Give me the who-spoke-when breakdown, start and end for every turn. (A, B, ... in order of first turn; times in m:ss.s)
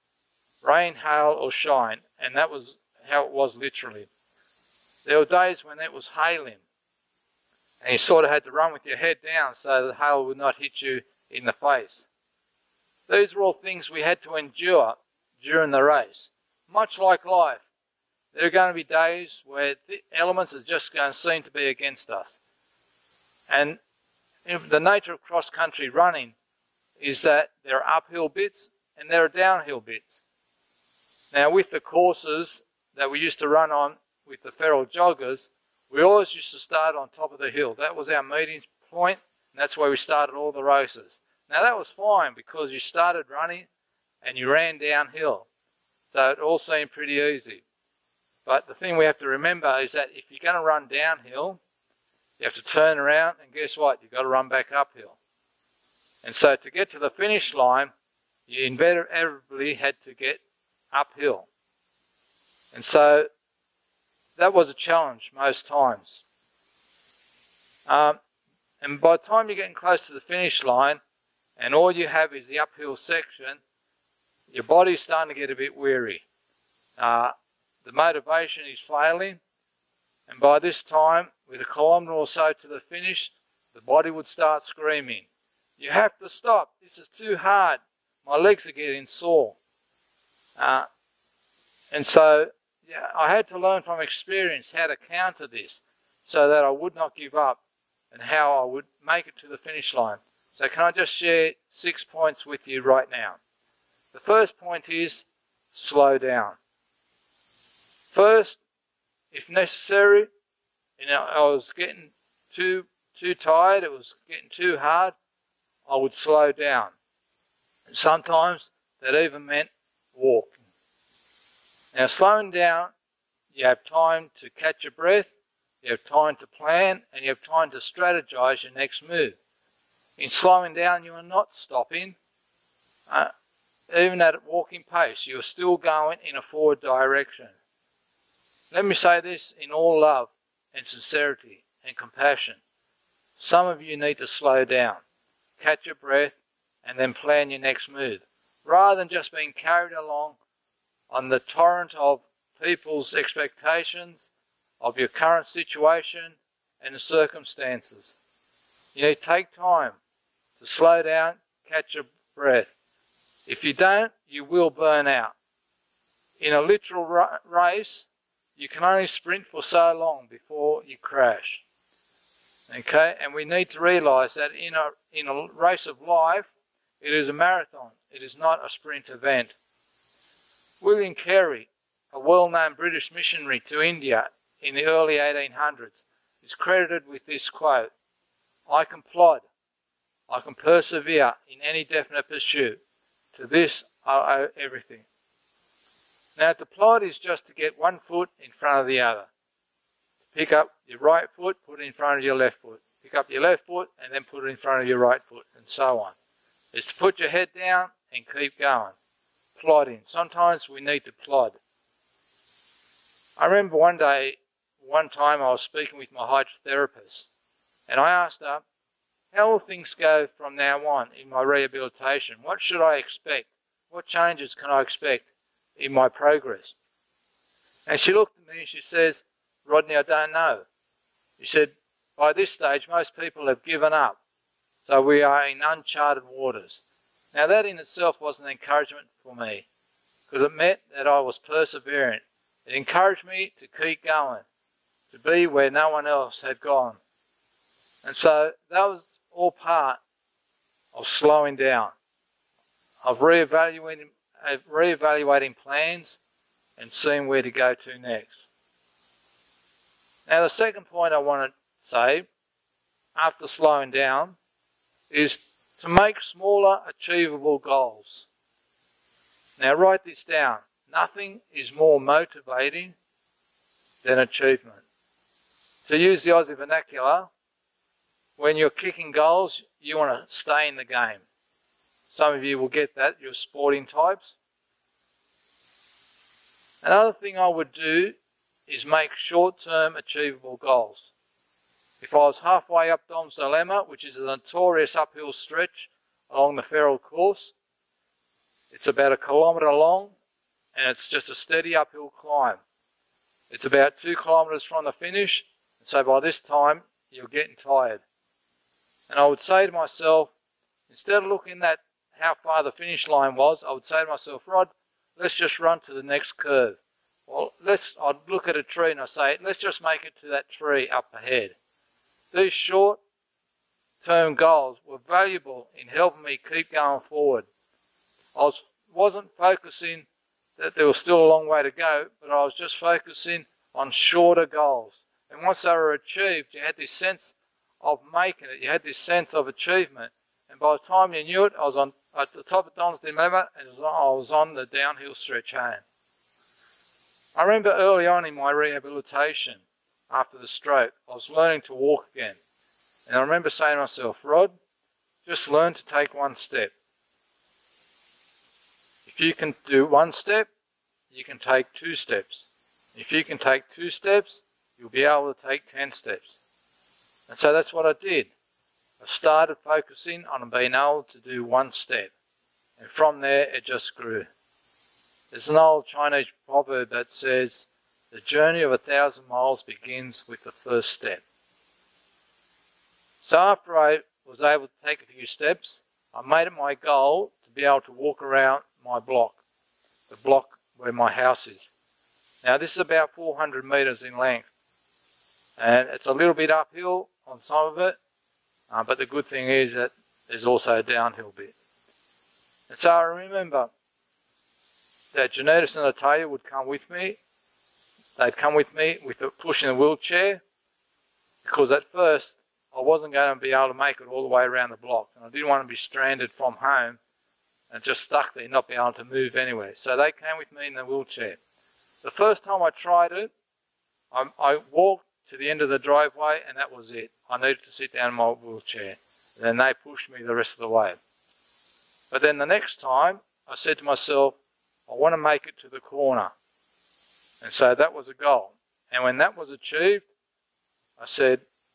0:00.6-0:04.1 A
0:05.0-0:06.6 A
0:07.8-0:12.1 A
0:13.1-0:17.6 A
0:18.3-0:22.4 A
0:23.5-0:23.8 A
0:24.4-0:26.3 A
0:27.0-0:30.2 A
0:31.3-0:43.7 A
0:44.2-0:45.5 A
0:46.1-0:47.6 A
0:48.4-0:51.6 A
0:52.4-0:55.2 A
0:56.2-0:57.9 A
0:58.5-1:00.4 A
1:00.9-1:01.5 A
1:02.7-1:03.3 A
1:04.4-1:06.2 A
1:07.9-1:08.2 A
1:08.8-1:11.0 A
1:11.6-1:13.6 A
1:14.5-1:16.2 A
1:17.0-1:19.4 A
1:20.3-1:25.3 A
1:25.8-1:29.6 A
1:30.6-1:30.9 A
1:31.9-1:37.6 A
1:38.1-1:43.4 A
1:44.1-1:46.6 A
1:48.1-1:48.6 A
1:49.3-1:50.3 A
1:51.0-1:55.1 A
1:55.9-1:56.9 A
1:57.9-2:00.6 A
2:01.9-2:02.9 A
2:03.5-2:09.4 A
2:10.2-2:12.2 A
2:13.9-2:17.5 A
2:18.7-2:22.6 A
2:23.4-2:25.0 A
2:25.6-2:30.4 A
2:31.1-2:38.2 A
2:38.9-2:40.0 A
2:40.6-2:42.7 A
2:43.4-2:45.3 A
2:46.4-2:51.6 A
2:52.7-2:59.5 A
3:00.8-3:07.9 A
3:08.7-3:09.4 A
3:10.3-3:12.8 A
3:13.3-3:15.0 A
3:16.4-3:19.3 A
3:20.3-3:26.1 A
3:26.7-3:28.9 A
3:29.6-3:31.6 A
3:33.4-3:37.3 A
3:37.9-3:38.6 A
3:39.3-3:45.2 A
3:45.8-3:46.8 A
3:47.9-3:50.6 A
3:51.4-3:54.2 A
3:54.8-3:56.8 A
3:57.3-3:59.6 A
4:00.3-4:04.4 A
4:05.1-4:07.0 A
4:08.0-4:10.0 A
4:10.9-4:11.9 A
4:13.0-4:16.2 A
4:16.8-4:18.5 A
4:20.3-4:22.3 A
4:23.2-4:24.4 A
4:25.1-4:28.3 A
4:29.6-4:33.0 A
4:34.0-4:34.8 A
4:35.8-4:37.3 A
4:38.4-4:41.2 A
4:42.1-4:44.4 A
4:46.8-4:48.2 A
4:48.7-4:51.1 A
4:52.0-4:57.5 A
4:58.7-5:00.1 A
5:00.7-5:02.6 A
5:03.5-5:08.0 A
5:09.1-5:10.3 A
5:10.9-5:21.6 A
5:22.3-5:23.0 A
5:24.0-5:27.4 A
5:28.3-5:45.8 A
5:47.3-5:52.4 A
5:53.1-5:54.5 A
5:55.2-5:56.7 A
5:59.0-6:00.5 A
6:01.1-6:06.4 A
6:07.3-6:08.3 A
6:09.0-6:12.1 A
6:12.8-6:14.3 A
6:15.3-6:21.2 A
6:23.2-6:29.4 A
6:30.1-6:31.7 A
6:32.4-6:34.5 A
6:35.6-6:38.0 A
6:38.7-6:41.5 A
6:42.7-6:43.7 A
6:45.1-6:47.2 A
6:48.2-6:50.4 A
6:51.4-6:57.0 A
6:57.7-7:01.4 A
7:02.0-7:03.3 A
7:04.1-7:11.0 A
7:12.1-7:16.3 A
7:17.4-7:20.1 A
7:21.0-7:21.4 A